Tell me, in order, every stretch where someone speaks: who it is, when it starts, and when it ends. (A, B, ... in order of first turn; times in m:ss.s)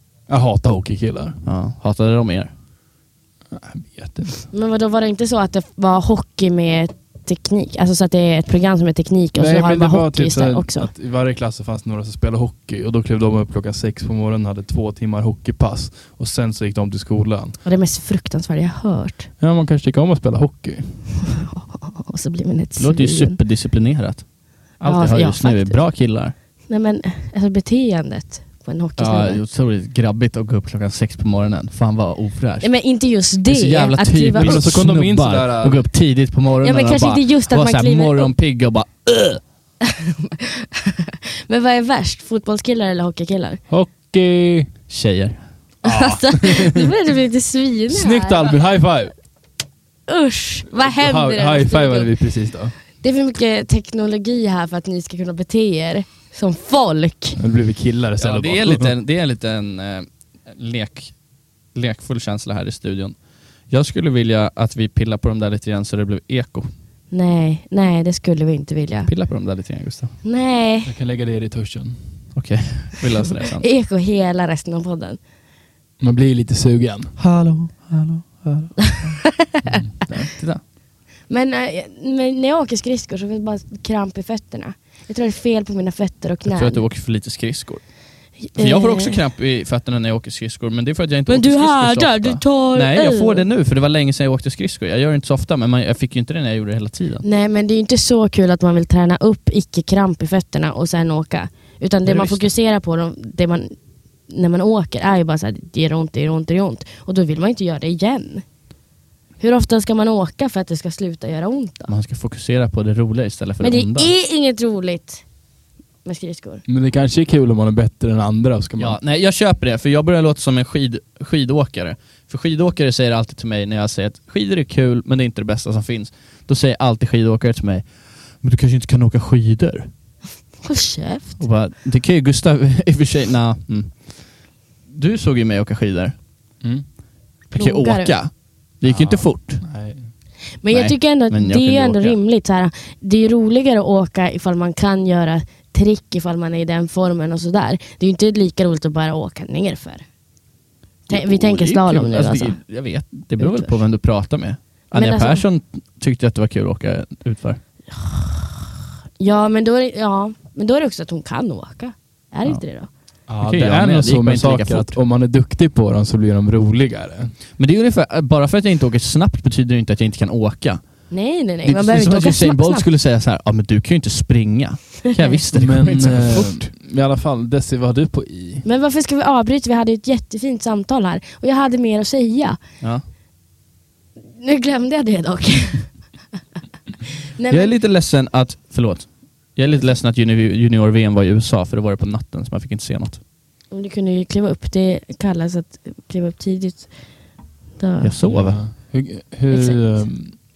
0:00.3-0:01.4 A
0:01.4-0:02.5 B
0:03.5-0:04.5 A
0:04.5-0:10.9 C
0:09.3-0:17.6 A
0:17.6-0:19.3 C
0:19.4-0:21.1 A
0:21.2-0:23.4 C
0:22.8-0:26.3 B
0:24.8-0:25.8 C
0:26.7-0:29.4 C
0:29.0-0:32.7 B
0:32.6-0:34.7 C
0:33.5-0:39.4 B
0:34.3-0:35.8 A
0:36.6-0:38.3 C
0:39.8-0:43.6 C
0:43.7-0:44.7 A
0:44.9-0:45.4 B
0:45.8-0:46.9 A
0:45.8-0:48.5 C
0:47.9-0:49.1 A
0:50.1-0:52.1 C
0:50.7-0:52.7 A
0:53.0-0:57.4 C
0:57.4-0:58.9 A
0:58.2-1:01.1 B
1:01.7-1:03.2 B
1:03.7-1:06.7 B
1:07.1-1:09.1 C
1:09.0-1:10.1 B
1:10.2-1:10.9 C
1:10.8-1:12.0 A
1:12.3-1:13.6 B
1:13.5-1:15.2 C
1:16.0-1:17.2 A
1:17.2-1:19.2 B
1:19.5-1:19.8 C
1:20.0-1:20.6 B
1:21.3-1:26.8 C
1:26.5-1:27.9 B
1:28.5-1:29.2 C
1:28.5-1:37.2 B
1:31.3-1:33.4 C
1:37.2-1:43.8 C
1:42.0-1:42.5 B
1:44.3-1:48.4 C
1:49.4-1:51.9 C
1:51.9-1:54.1 B
1:53.6-1:55.2 C
1:56.0-1:56.6 C
1:56.7-1:59.0 A
1:58.8-2:09.9 B
2:10.6-2:11.4 C
2:11.4-2:14.2 B
2:14.9-2:16.2 B
2:17.5-2:18.2 C
2:17.5-2:19.6 B
2:18.8-2:20.1 A
2:20.6-2:30.0 C
2:20.7-2:22.2 B
2:31.1-2:32.6 C
2:31.1-2:37.6 B
2:33.4-2:33.8 C
2:34.9-2:35.4 C
2:37.9-2:38.6 C
2:39.2-2:42.9 C
2:43.3-2:47.3 A
2:43.4-2:45.0 B
2:47.6-2:50.8 B
2:51.1-2:52.9 C
2:51.6-2:56.7 B
2:55.5-2:58.6 A
2:58.6-3:02.6 C
3:04.4-3:06.0 C
3:07.4-3:07.7 C
3:07.5-3:13.2 B
3:13.7-3:16.9 C
3:17.8-3:18.1 C
3:18.0-3:18.6 B
3:18.2-3:20.4 A
3:19.5-3:20.0 C